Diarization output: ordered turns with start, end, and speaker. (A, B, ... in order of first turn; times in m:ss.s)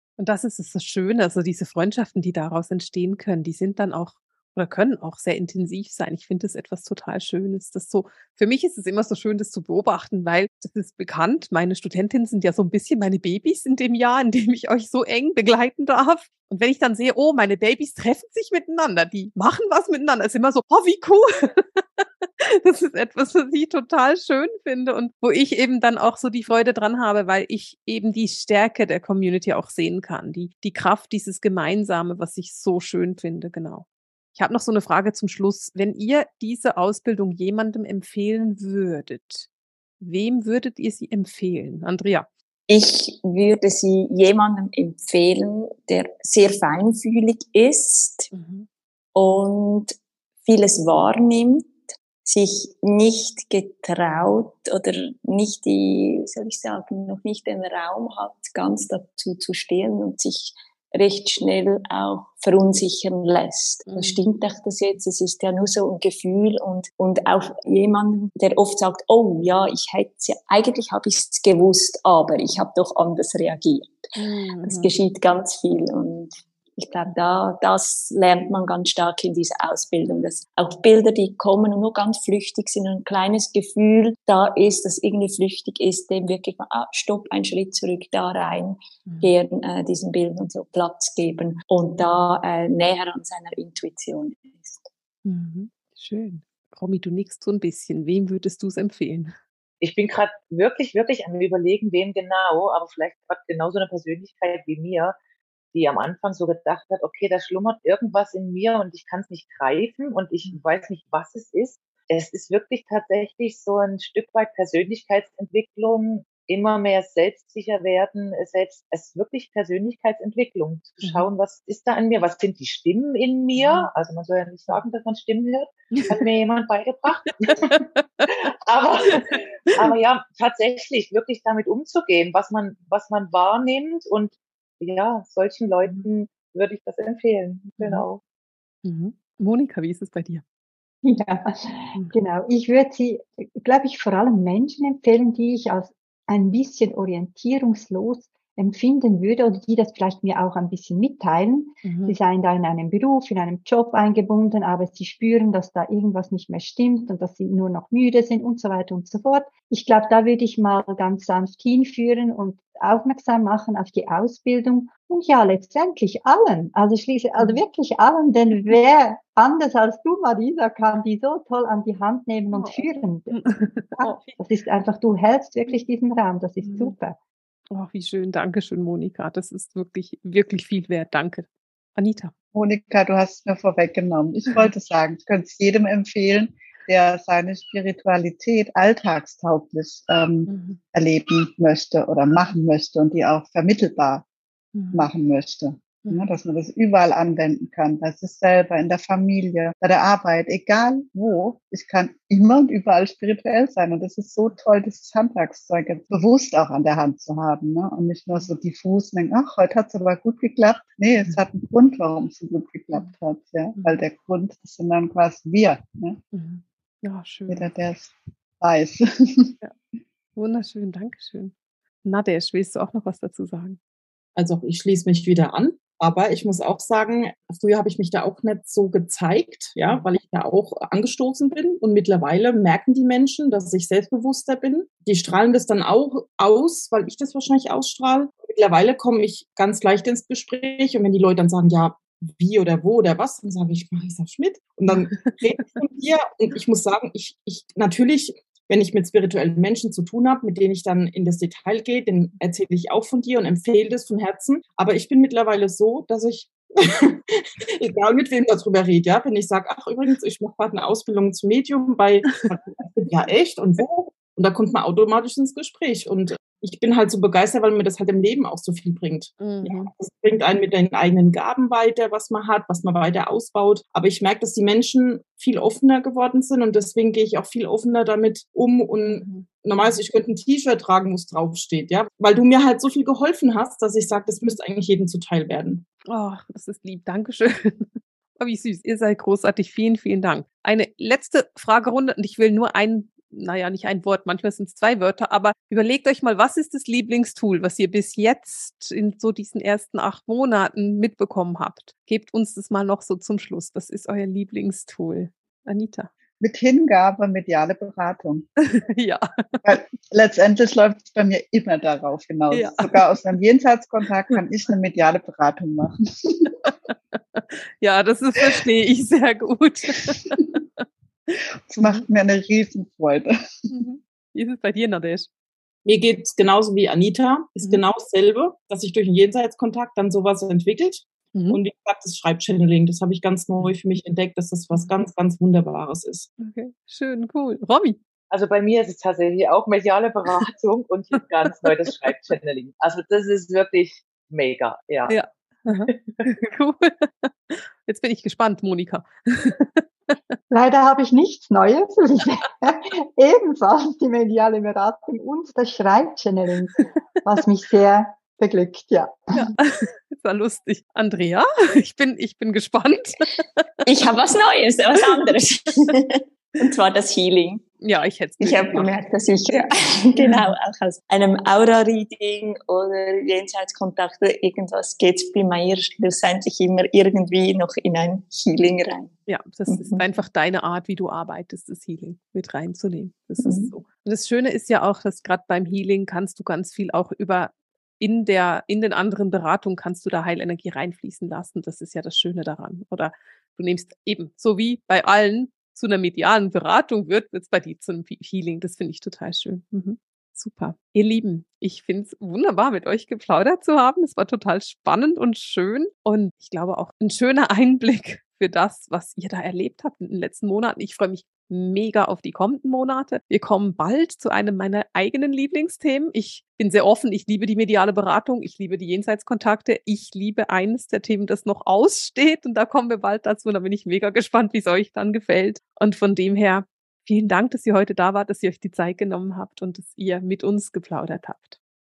0:00.2-0:39.5 A
0:40.0-0:42.3 A
0:42.7-0:48.3 B
0:48.3-0:48.7 A
0:49.2-1:34.9 B
1:03.9-1:04.2 A
1:14.2-1:14.9 A
1:29.1-1:29.3 A
1:35.2-1:39.4 A
1:39.8-1:45.2 C
1:45.7-2:18.2 C
2:01.0-2:01.3 A
2:03.6-2:03.9 A
2:07.4-2:08.3 A
2:09.1-2:09.9 A
2:17.8-2:18.1 A
2:18.8-2:20.4 A
2:21.0-2:57.2 D
2:31.8-2:32.2 A
2:47.4-2:47.6 A
2:52.5-2:54.3 A
2:56.6-2:57.0 A
2:57.7-3:02.3 A
3:02.5-3:14.2 E
3:10.5-3:10.8 A
3:14.7-3:15.1 A
3:14.9-3:36.2 E
3:16.0-3:16.3 A
3:33.8-3:34.0 A
3:36.3-3:37.7 A
3:37.5-3:39.5 E
3:40.4-3:41.5 A
3:42.0-3:43.8 A
3:44.4-4:45.8 F
4:04.9-4:05.8 A
4:29.4-4:29.9 A
4:39.0-4:39.9 A
4:46.1-5:06.1 A
5:06.4-5:08.5 E
5:08.6-5:09.8 A
5:09.6-5:16.5 E
5:12.5-5:13.1 A
5:16.4-5:20.8 A
5:21.7-5:23.7 E
5:23.7-5:25.3 A
5:25.8-5:36.3 F
5:31.3-5:31.6 A
5:36.4-5:38.0 A
5:38.3-5:45.2 C
5:41.6-5:42.3 A
5:45.1-5:50.3 A
5:45.7-5:46.2 C
5:50.5-5:59.5 D
5:59.3-6:03.7 A
6:03.9-6:07.6 B
6:05.0-6:05.3 A
6:07.8-6:08.9 A
6:08.4-6:19.1 B
6:10.2-6:10.5 A
6:19.3-7:11.6 A
6:19.7-6:20.0 B
6:23.4-6:23.7 B